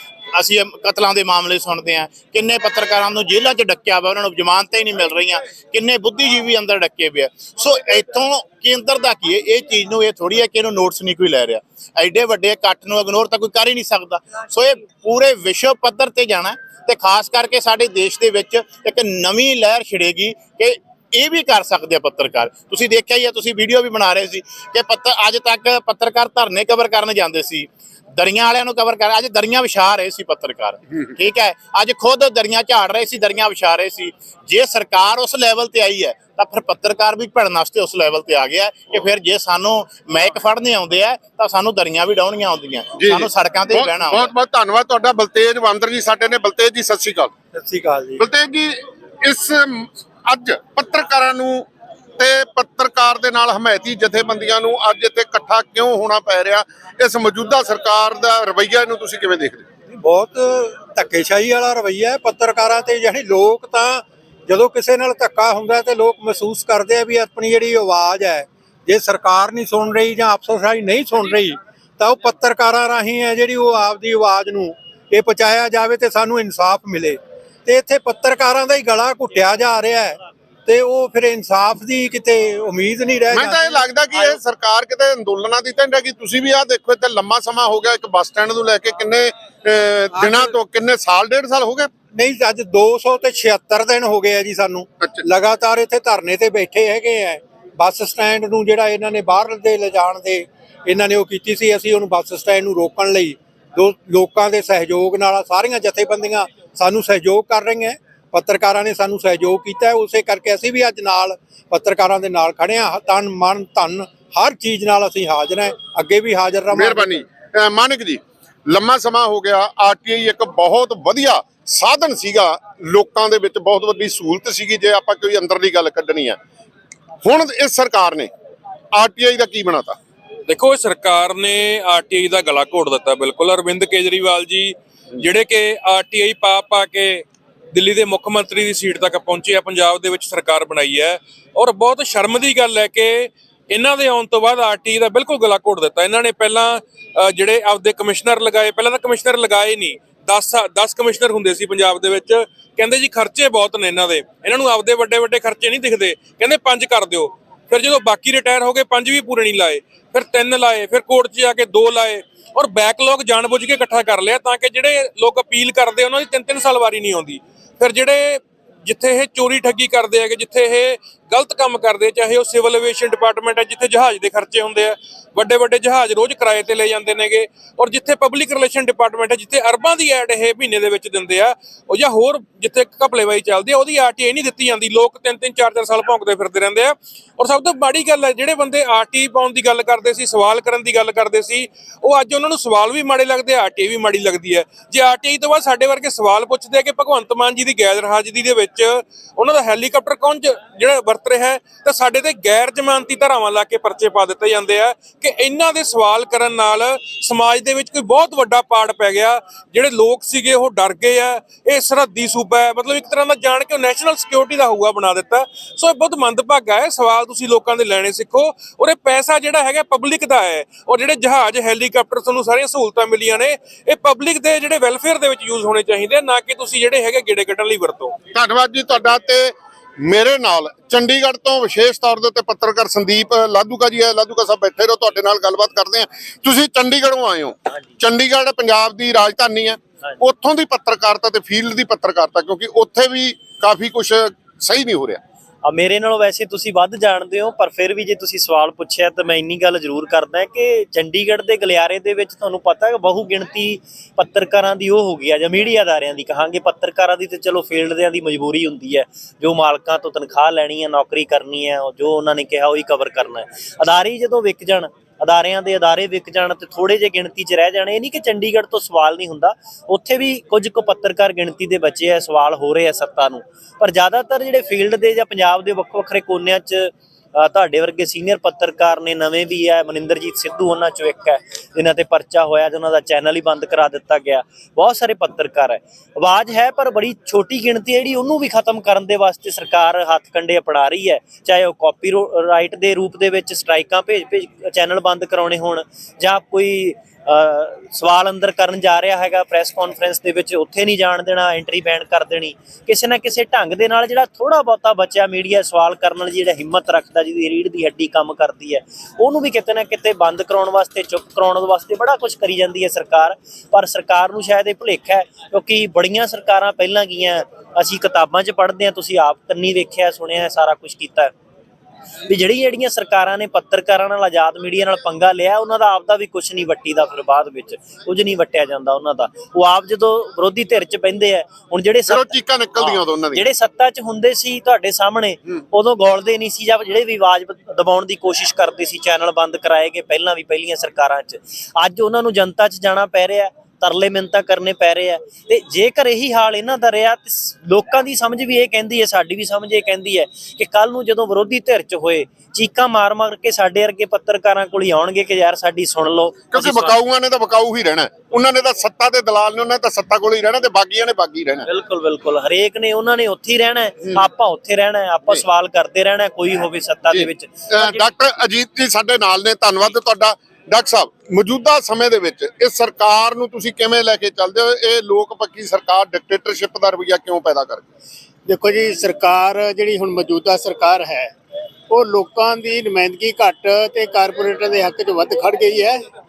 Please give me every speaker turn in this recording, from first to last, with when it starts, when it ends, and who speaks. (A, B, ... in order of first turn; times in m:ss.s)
0:00.3-0:44.3 A
0:43.0-0:47.3 B
0:47.5-0:48.2 C
0:48.2-0:59.6 B
0:59.9-1:24.3 C
1:23.3-1:31.9 B
1:30.1-1:30.5 C
1:32.1-1:57.2 C
1:56.7-2:06.4 B
2:07.2-2:08.3 B
2:08.9-2:10.0 B
2:10.5-3:48.1 D
3:48.3-4:05.2 B
4:05.6-5:21.3 E
5:22.3-5:57.0 E
5:32.1-5:33.4 B
5:56.5-6:01.7 B
6:01.6-6:08.0 E
6:07.1-6:17.9 B
6:18.4-6:21.3 F
6:21.9-6:26.0 F